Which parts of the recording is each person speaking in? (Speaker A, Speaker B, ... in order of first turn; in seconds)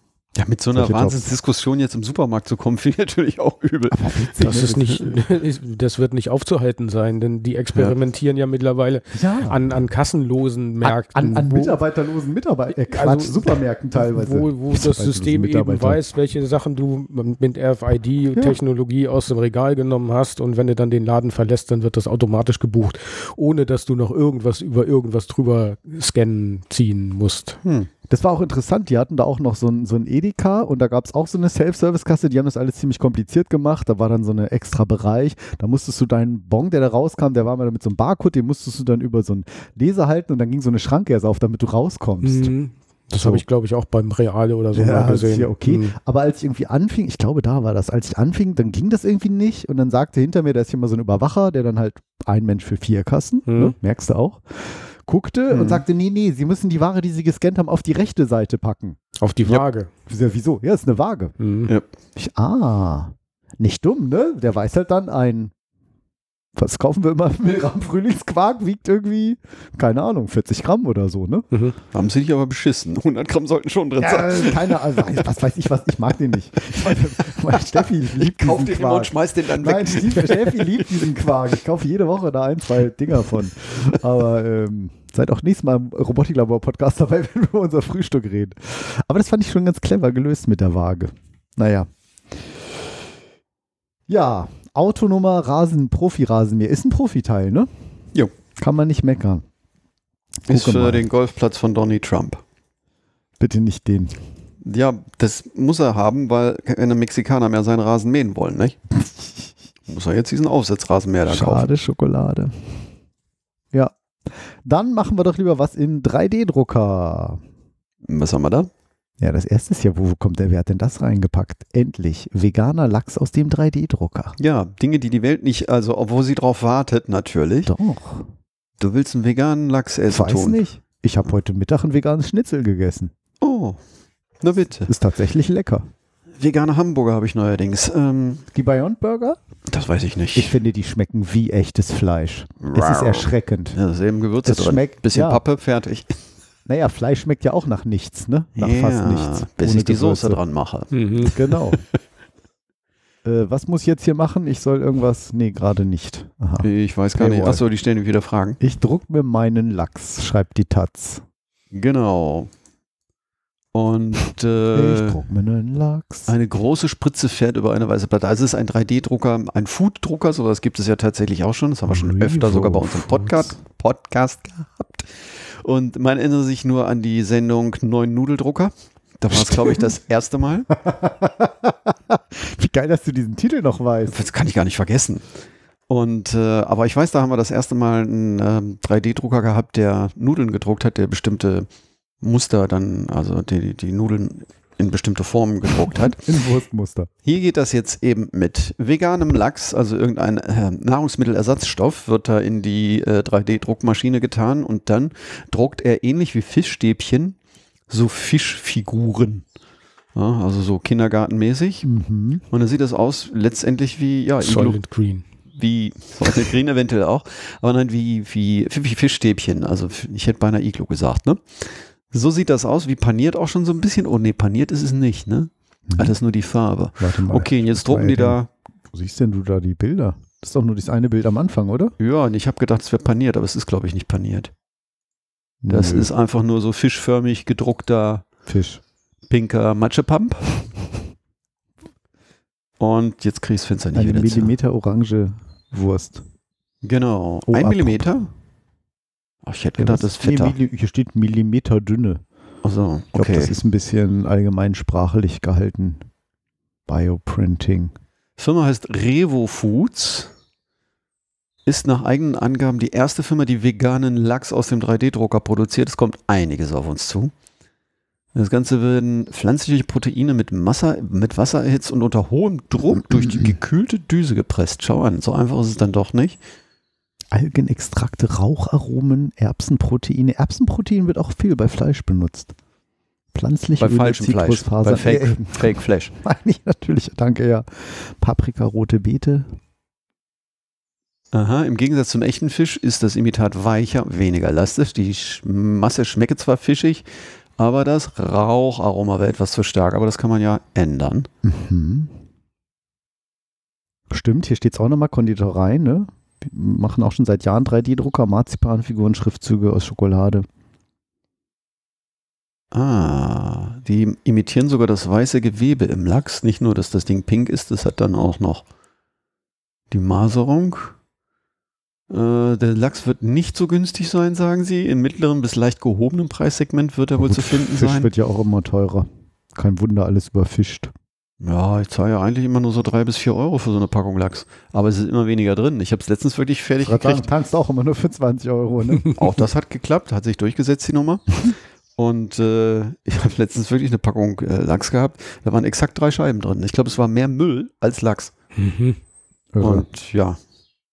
Speaker A: 0.3-5.0, 27.6-27.9, 55.5-55.8, 71.9-75.2, 77.5-80.9, 100.5-102.4, 104.6-108.8, 109.9-111.7, 118.0-118.7, 124.4-127.7, 128.8-130.6, 133.4-133.8, 134.4-134.9, 136.3-138.4, 139.7-140.6, 142.6-146.2, 148.6-151.8, 156.6-158.6, 161.7-162.5, 163.7-165.2, 166.3-180.7, 184.1-185.2, 185.9-191.7, 192.2-196.2, 197.2-207.4, 207.9-209.4, 210.1-211.9, 212.5-214.8, 215.5-228.5, 232.0-234.5, 235.7-238.2, 239.3-240.7, 242.8-244.5, 246.8-248.3, 249.4-250.6, 252.6-253.6, 258.4-260.3, 261.6-267.3, 268.3-276.4, 283.8-286.1, 291.3-297.1, 297.6-301.3, 312.7-318.6, 319.9-320.9, 322.1-328.1, 331.4-337.3, 339.1-341.4, 341.9-348.3, 349.6-350.4
Speaker B: 0.7-1.3, 3.9-5.2, 9.1-9.6, 10.8-16.0, 28.1-42.5, 43.1-43.5, 44.7-59.0, 60.1-61.3, 62.1-65.5, 66.5-71.5, 74.0-91.9, 94.1-97.7, 98.6-99.4, 100.5-101.0, 103.4-104.1, 109.0-109.5, 111.2-112.5, 114.6-117.4, 119.2-124.3, 127.7-128.3, 130.1-133.1, 134.9-135.9, 138.5-139.4, 140.3-143.8, 144.4-145.4, 146.7-150.4, 151.2-151.8, 153.2-157.6, 158.6-161.2, 164.7-166.3, 171.9-173.6, 179.4-179.8, 180.7-184.2, 195.9-197.1, 211.8-212.4, 225.9-226.1, 227.0-228.4, 228.9-231.9, 235.6-236.1, 238.5-238.8, 243.9-246.2, 247.5-248.1, 249.8-252.2, 253.1-256.0, 256.9-257.9, 273.1-273.5, 277.3-282.5, 283.3-289.5, 301.4-302.1, 304.1-310.4, 327.2-330.9, 336.8-339.1, 349.5-349.8
Speaker C: 4.4-11.8, 12.8-27.6, 42.2-45.9, 53.5-53.8, 59.2-59.9, 61.4-61.7, 71.5-71.8, 150.9-151.3, 214.4-215.2, 348.6-349.0